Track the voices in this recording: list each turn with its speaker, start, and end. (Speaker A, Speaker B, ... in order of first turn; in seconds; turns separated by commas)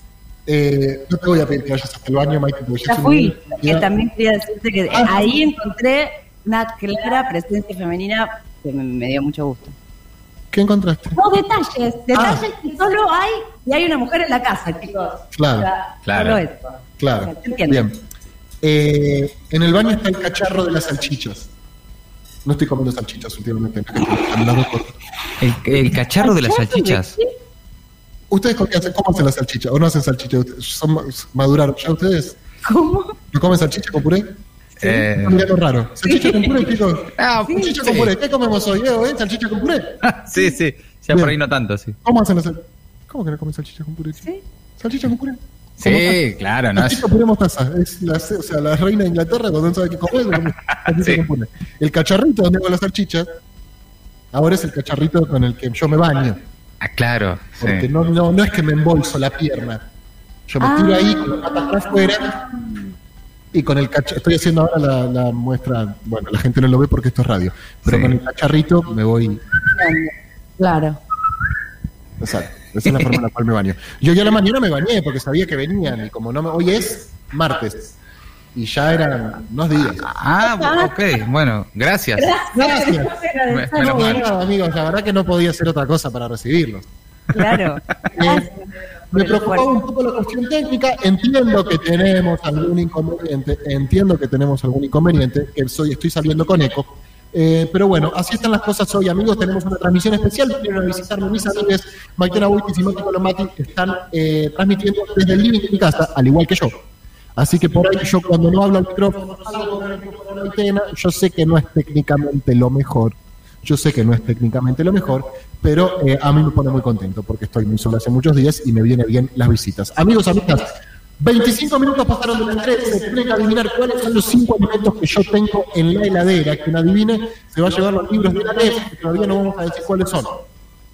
Speaker A: 0.5-3.9, Speaker B: 2.9-9.8, Speaker A: 4.9-5.3, Speaker A: 10.5-11.2, Speaker B: 11.2-17.9, Speaker A: 12.1-12.4, Speaker A: 15.3-15.7, Speaker C: 16.1-16.4, Speaker A: 17.0-18.0, Speaker A: 18.6-21.5, Speaker A: 22.4-24.9, Speaker C: 25.4-27.2, Speaker B: 26.2-27.3, Speaker A: 28.3-32.4, Speaker B: 32.6-33.2, Speaker A: 33.3-34.3, Speaker C: 34.8-35.5, Speaker A: 34.8-40.0, Speaker B: 36.0-36.7, Speaker C: 37.2-38.1, Speaker C: 40.1-42.0, Speaker A: 42.0-44.3, Speaker A: 44.8-46.2, Speaker C: 45.8-47.1, Speaker A: 46.8-53.3, Speaker C: 51.0-51.2, Speaker A: 54.3-56.4, Speaker C: 56.8-57.9, Speaker A: 57.6-59.8, Speaker A: 60.5-62.4, Speaker B: 60.6-62.8, Speaker A: 63.5-69.4, Speaker C: 67.9-68.2, Speaker B: 69.8-71.0, Speaker A: 72.2-78.0, Speaker C: 72.9-73.2, Speaker A: 78.5-80.1, Speaker C: 80.0-82.3, Speaker B: 80.4-81.0, Speaker B: 82.2-84.2, Speaker A: 82.5-83.2, Speaker C: 83.5-84.3, Speaker A: 83.8-86.9, Speaker B: 87.3-89.7, Speaker A: 88.2-88.5, Speaker A: 89.1-106.8, Speaker A: 107.4-130.4